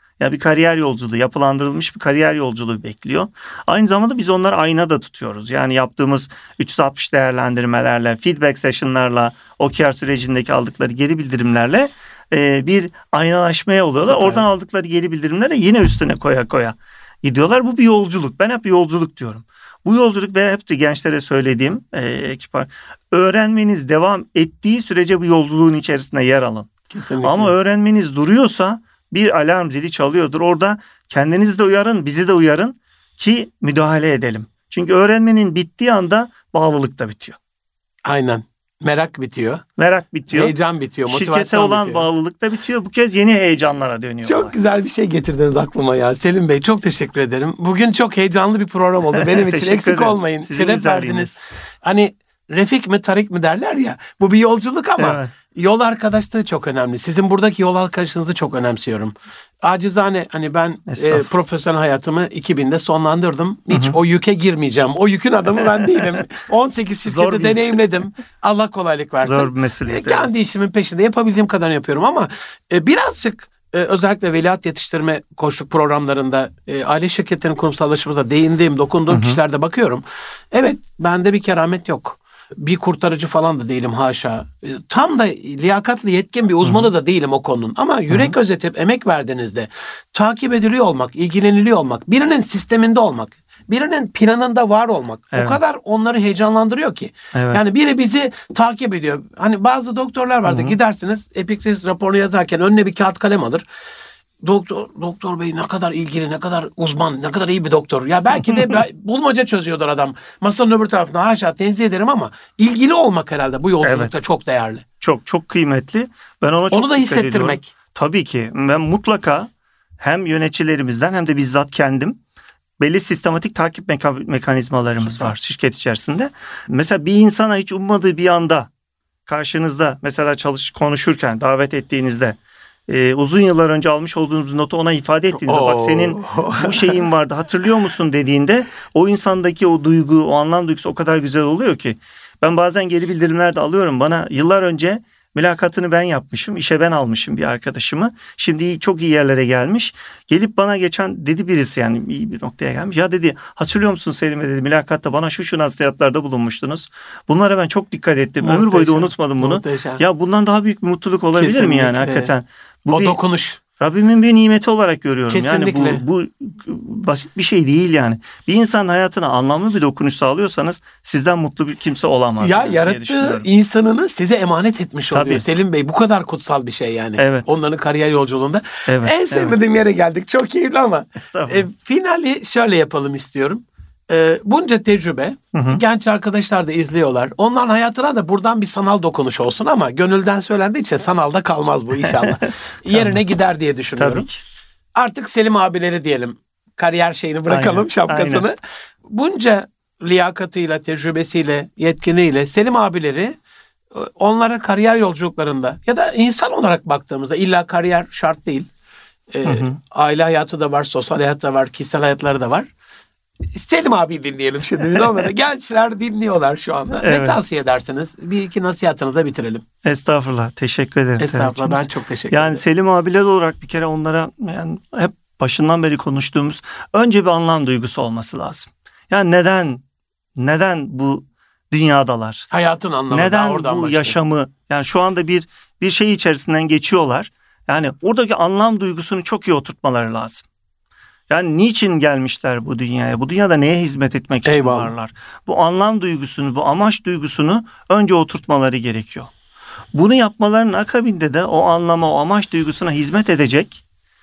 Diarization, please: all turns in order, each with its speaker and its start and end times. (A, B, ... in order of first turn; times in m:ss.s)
0:00.2-0:26.7 A
0:14.0-0:14.4 B
0:26.9-0:27.5 B
0:27.2-0:37.4 A
0:38.0-0:39.6 B
0:39.8-0:40.5 A
0:40.3-0:42.0 B
0:41.1-0:44.5 A
0:44.2-1:43.6 B
0:49.1-0:51.4 A
0:55.0-0:55.3 A
1:00.9-1:01.2 A
1:03.7-1:04.0 A
1:07.0-1:07.7 A
1:09.2-1:10.3 A
1:19.1-1:19.4 A
1:26.6-1:26.9 A
1:28.1-1:28.3 A
1:35.3-1:35.6 A
1:37.3-1:37.6 A
1:40.4-1:40.8 A
1:44.4-1:54.8 B
1:53.8-1:54.1 A
1:55.0-2:02.2 A
1:56.7-1:57.7 B
2:02.8-2:08.7 A
2:09.3-2:43.2 A
2:15.4-2:17.0 B
2:38.4-2:40.0 B
2:41.3-2:42.3 B
2:42.9-2:43.6 B
2:43.8-2:53.4 A
2:45.3-2:46.0 B
2:52.4-3:14.3 B
2:55.1-2:55.4 A
2:57.2-2:57.6 A
2:58.8-2:59.6 A
3:01.2-3:01.6 A
3:05.5-3:05.8 A
3:12.1-3:13.2 A
3:14.0-3:14.4 A
3:15.0-3:18.6 B
3:17.5-3:18.4 A
3:19.1-3:23.4 B
3:23.9-3:28.7 B
3:29.3-3:32.7 B
3:29.4-3:29.8 A
3:33.5-3:39.6 B
3:37.0-3:37.4 A
3:39.8-3:49.8 A
3:41.2-3:42.6 B
3:50.4-3:52.5 A
3:52.5-3:54.2 B
3:53.1-4:00.4 A
4:01.3-4:09.3 A
4:04.4-4:04.9 B
4:09.9-4:13.8 A